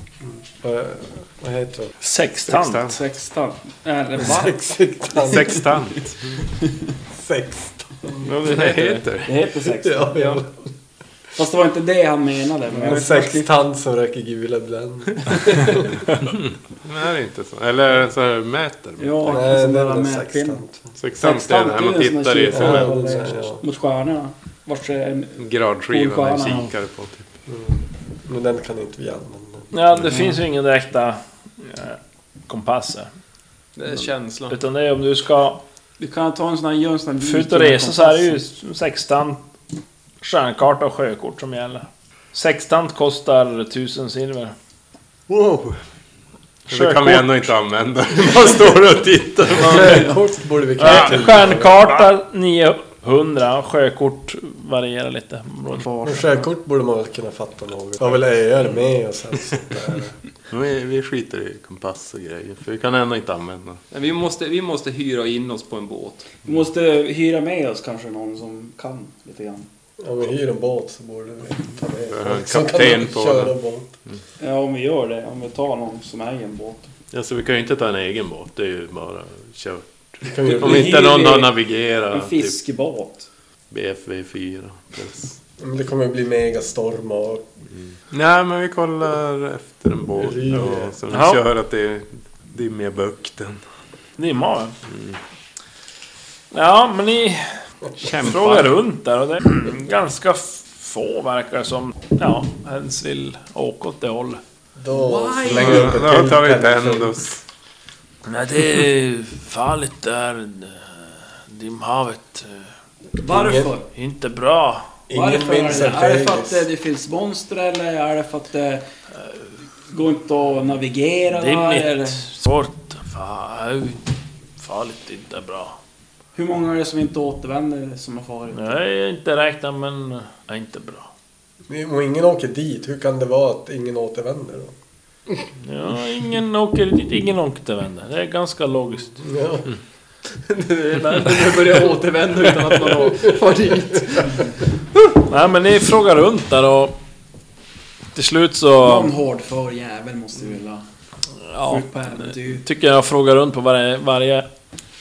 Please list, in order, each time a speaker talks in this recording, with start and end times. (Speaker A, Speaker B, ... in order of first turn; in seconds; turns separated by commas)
Speaker A: 0.2-1.9, Speaker B: 2.0-2.9, Speaker C: 2.5-3.0, Speaker D: 2.9-4.6, Speaker A: 4.2-5.7, Speaker C: 5.1-6.4, Speaker A: 7.1-8.3, Speaker C: 8.3-9.3, Speaker E: 8.4-9.0, Speaker D: 9.2-10.4, Speaker A: 9.7-10.5, Speaker D: 11.3-13.5, Speaker A: 12.7-16.0, Speaker C: 16.2-19.4, Speaker D: 19.0-20.6, Speaker A: 19.3-20.9, Speaker C: 20.9-23.2, Speaker D: 21.2-26.7, Speaker A: 22.5-23.6, Speaker C: 25.4-27.3, Speaker A: 27.5-29.7, Speaker B: 29.7-33.1, Speaker E: 33.8-34.5, Speaker B: 34.5-35.6, Speaker D: 36.0-38.4, Speaker B: 37.2-39.4, Speaker B: 40.2-44.5, Speaker A: 45.3-45.7, Speaker B: 46.7-47.3, Speaker C: 46.7-50.1, Speaker A: 49.6-51.9, Speaker D: 49.7-50.0, Speaker B: 49.7-50.0, Speaker B: 50.8-55.9, Speaker D: 55.7-56.5, Speaker A: 56.0-60.1, Speaker C: 60.5-63.8, Speaker E: 63.9-66.3, Speaker D: 66.4-69.7, Speaker A: 70.0-73.9, Speaker C: 72.1-73.5, Speaker D: 74.4-76.9, Speaker C: 77.1-82.6, Speaker A: 80.2-81.0, Speaker D: 80.4-83.3, Speaker C: 83.7-85.4, Speaker A: 85.6-87.5, Speaker C: 88.1-93.6, Speaker A: 90.2-91.0, Speaker B: 91.1-91.4, Speaker B: 94.2-94.7, Speaker C: 94.9-95.2, Speaker B: 96.5-104.4, Speaker E: 98.0-98.7, Speaker A: 104.8-107.2, Speaker D: 104.9-105.9, Speaker C: 105.5-107.4, Speaker B: 108.2-112.7, Speaker D: 113.2-113.9, Speaker A: 113.2-113.7, Speaker B: 113.9-114.9, Speaker A: 115.1-116.7, Speaker D: 115.1-118.8, Speaker D: 119.9-122.2, Speaker B: 121.3-124.1, Speaker B: 124.6-125.8, Speaker D: 126.3-128.8, Speaker B: 128.5-131.1, Speaker A: 131.7-134.7, Speaker B: 135.6-139.2, Speaker A: 139.1-139.7, Speaker E: 140.5-144.5, Speaker B: 145.2-146.9, Speaker B: 148.1-149.1, Speaker D: 148.8-150.8, Speaker B: 151.4-154.5, Speaker D: 151.6-152.6